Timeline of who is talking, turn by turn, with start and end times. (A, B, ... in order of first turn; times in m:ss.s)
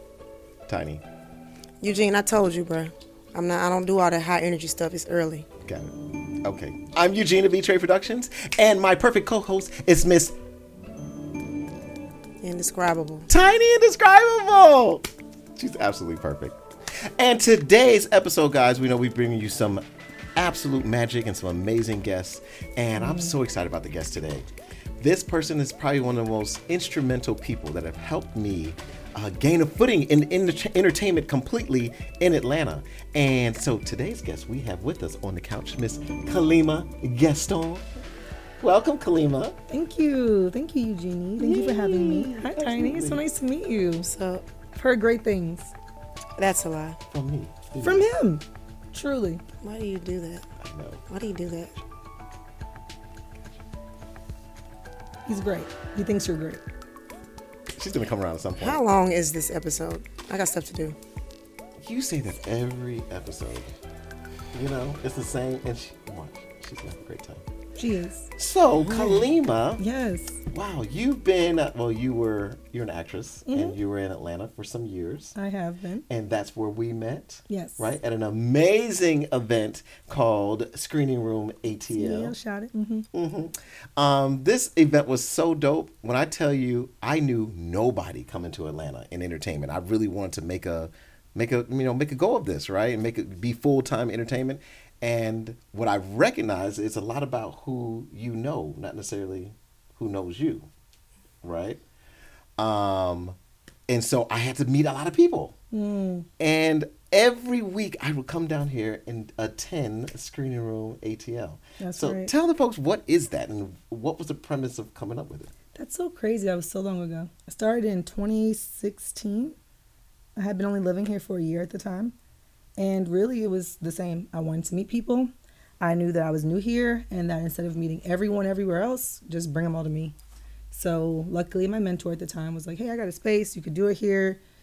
0:00.7-0:01.0 A
0:01.8-0:05.5 B
0:05.7-0:05.9 A
0:06.4-0:10.4 A
0:12.4-0:13.3 B
0:13.3-0:16.6 A
0:17.2-0:19.8 A
0:20.4-0:24.5 A
0:23.0-0:23.4 C
0:25.0-0:37.8 A
0:38.6-0:39.6 A
0:39.7-0:44.1 C
0:41.4-0:43.2 A
0:44.0-0:44.4 B
0:44.8-0:45.7 C
0:46.4-0:47.0 B
0:47.1-0:48.1 A
0:47.8-0:49.4 C
0:49.6-0:50.4 B
0:50.6-0:51.0 A
0:51.1-0:51.7 B
0:55.3-0:56.6 C
0:57.8-0:58.8 A
0:58.6-1:01.0 B
1:01.8-1:03.7 A
1:04.5-1:07.4 A
1:07.8-1:08.3 C
1:08.4-1:09.8 A
1:08.8-1:09.3 B
1:09.8-1:10.4 C
1:10.5-1:15.4 A
1:13.5-1:13.8 C
1:15.4-1:16.1 C
1:16.1-1:22.4 A
1:17.5-1:17.9 C
1:21.9-1:23.1 C
1:23.1-1:40.7 A
1:41.4-1:41.8 A
1:42.6-1:43.4 A
1:43.9-1:45.5 A
1:45.7-1:46.3 C
1:46.4-1:55.5 A
1:51.8-1:52.3 C
1:55.8-1:59.6 C
2:00.4-2:02.1 C
2:02.8-2:10.2 C
2:10.7-2:14.4 C